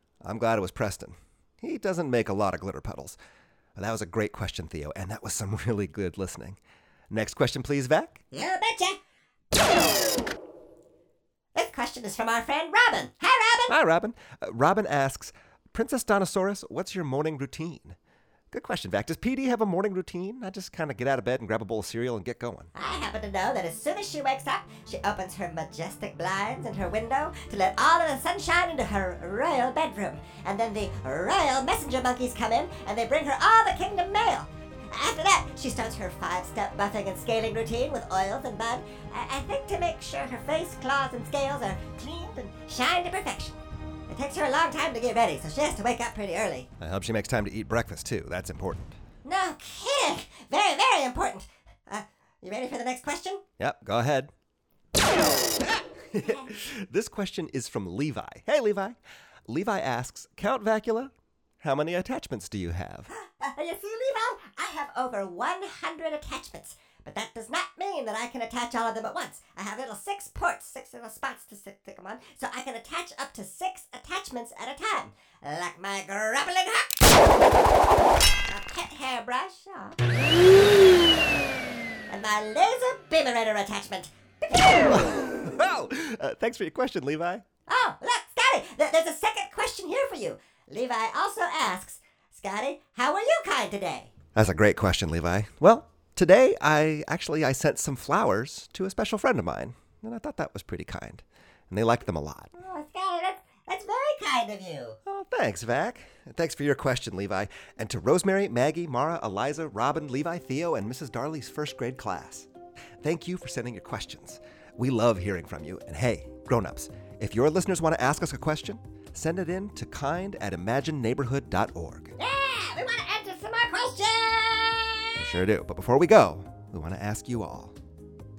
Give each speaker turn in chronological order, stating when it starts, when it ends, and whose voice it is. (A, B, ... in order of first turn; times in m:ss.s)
0:00.2-0:03.2 A
0:03.8-0:06.6 A
0:07.1-0:08.2 A
0:08.3-0:09.0 B
0:11.6-0:13.8 B
0:13.7-0:18.0 A
0:18.5-0:22.7 A
0:22.8-0:43.6 B
0:44.1-0:46.7 B
0:46.8-0:49.0 A
0:49.2-0:53.4 B
0:53.6-0:54.3 A
0:56.1-1:03.1 A
1:03.1-1:17.2 B
1:18.5-1:20.2 B
1:22.1-1:25.1 B
1:24.9-1:27.4 A
1:27.7-1:34.1 B
1:34.4-1:42.6 A
1:42.6-1:45.0 B
1:45.1-1:52.5 A
1:53.0-2:02.2 A
2:02.2-2:05.4 B
2:05.2-2:07.8 A